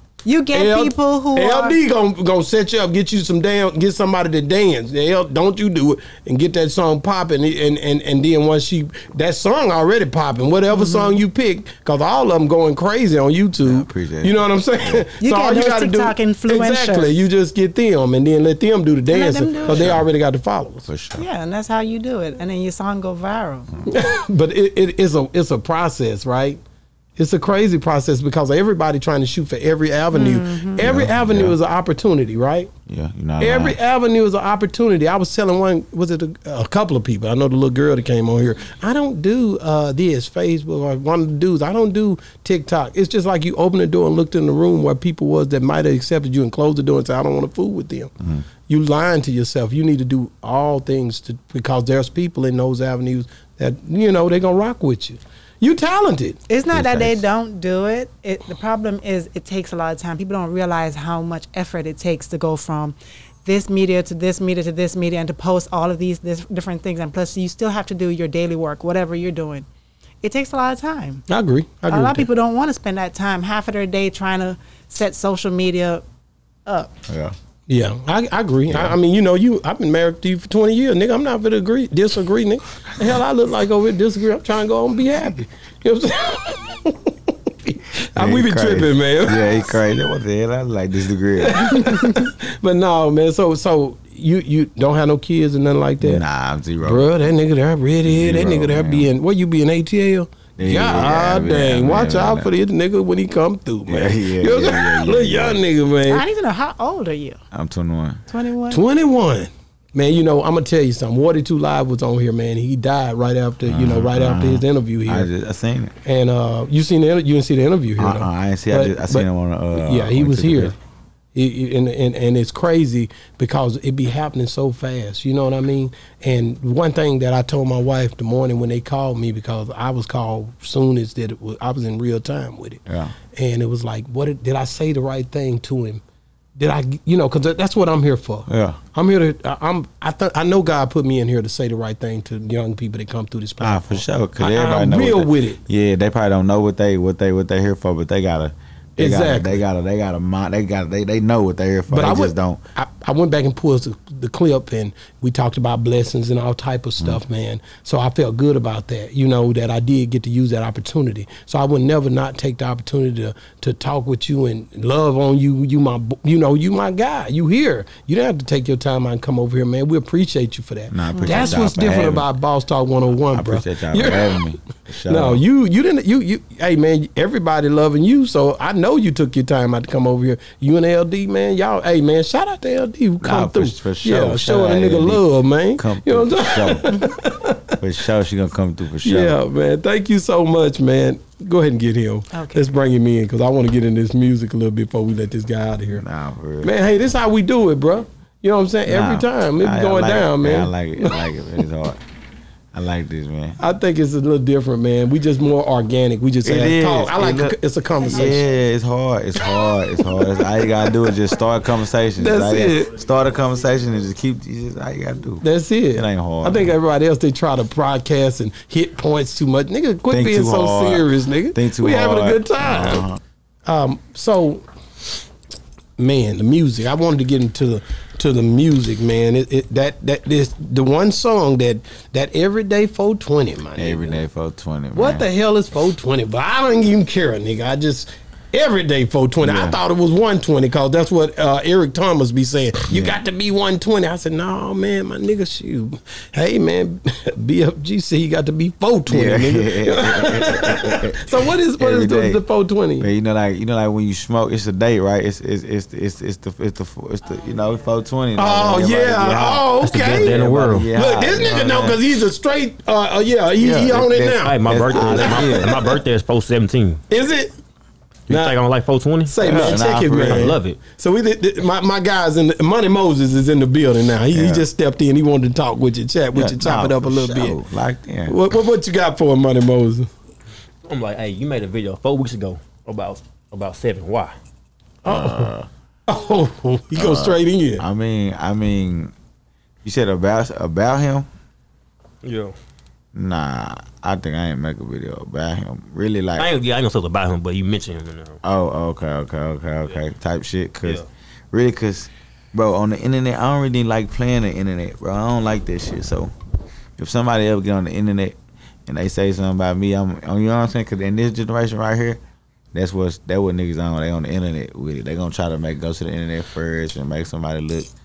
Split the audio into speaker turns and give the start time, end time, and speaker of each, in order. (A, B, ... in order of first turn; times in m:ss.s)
0:00.2-0:01.8 A
0:00.5-0:20.9 B
0:10.7-0:11.2 A
0:13.6-0:15.0 C
0:15.2-0:17.2 A
0:19.1-0:20.0 A
0:19.7-0:20.0 C
0:20.8-0:21.2 C
0:21.2-0:23.7 A
0:23.9-0:26.6 B
0:27.2-0:32.7 B
0:30.1-0:30.9 A
0:30.8-0:31.6 C
0:32.9-0:33.8 C
0:33.4-0:48.1 B
0:48.2-0:48.4 C
0:48.7-0:56.4 B
0:56.5-1:09.6 A
0:56.7-0:57.2 C
1:10.2-1:11.2 A
1:11.3-1:12.3 B
1:11.9-1:16.0 A
1:16.6-1:16.9 A
1:17.1-1:17.3 C
1:17.7-1:29.6 B
1:18.7-1:18.9 C
1:28.2-1:32.2 C
1:31.4-1:36.2 B
1:36.0-1:37.1 C
1:36.8-1:46.2 B
1:38.0-1:39.1 C
1:40.6-1:42.5 C
1:43.9-1:45.6 C
1:46.1-1:47.4 A
1:47.5-1:48.2 C
1:48.3-1:48.8 A
1:48.7-1:55.3 B
1:53.7-1:55.9 C
1:56.0-2:00.8 B
1:58.0-2:00.8 C
2:01.3-2:12.8 B
2:12.9-2:13.2 C
2:13.3-2:16.0 B
2:16.6-2:25.6 B
2:18.5-2:18.8 C
2:23.6-2:32.6 C
2:29.0-2:29.6 B
2:31.9-2:54.4 B
2:50.9-2:52.2 C
2:51.1-2:51.6 A
2:53.3-2:55.4 C
2:55.1-3:07.7 B
3:03.2-3:06.9 C
3:07.8-3:09.4 C
3:09.0-3:16.0 B
3:12.3-3:12.7 A
3:15.9-3:16.7 C
3:16.6-3:21.2 B
3:18.8-3:22.0 C
3:22.7-3:23.6 C
3:23.6-3:28.4 B
3:26.4-3:27.6 C
3:28.1-3:36.7 C
3:32.2-3:33.0 B
3:35.4-3:43.1 B
3:40.1-3:43.2 C
3:43.6-3:44.6 B
3:46.0-3:54.2 B
3:53.8-3:55.2 C
3:54.9-4:13.1 B
3:59.4-3:59.8 C
4:02.9-4:03.2 C
4:09.1-4:12.4 C
4:13.0-4:22.0 C
4:18.4-4:20.4 B
4:19.8-4:20.9 D
4:20.9-4:25.9 B
4:23.6-4:25.8 C
4:24.4-4:27.0 D
4:27.1-4:27.5 B
4:28.3-4:30.8 D
4:28.3-4:28.6 B
4:29.3-4:37.6 B
4:29.4-4:30.6 C
4:34.3-4:34.6 C
4:36.3-4:38.4 C
4:38.3-4:40.1 B
4:40.8-4:44.3 D
4:45.0-4:45.5 B
4:45.1-4:45.7 C
4:46.1-4:47.8 B
4:46.9-4:49.1 C
4:49.8-4:51.3 C
4:52.2-4:52.5 D
4:53.1-4:56.5 C
4:56.4-4:58.4 D
4:58.4-5:06.3 C
5:07.0-5:12.2 C
5:12.7-5:17.9 C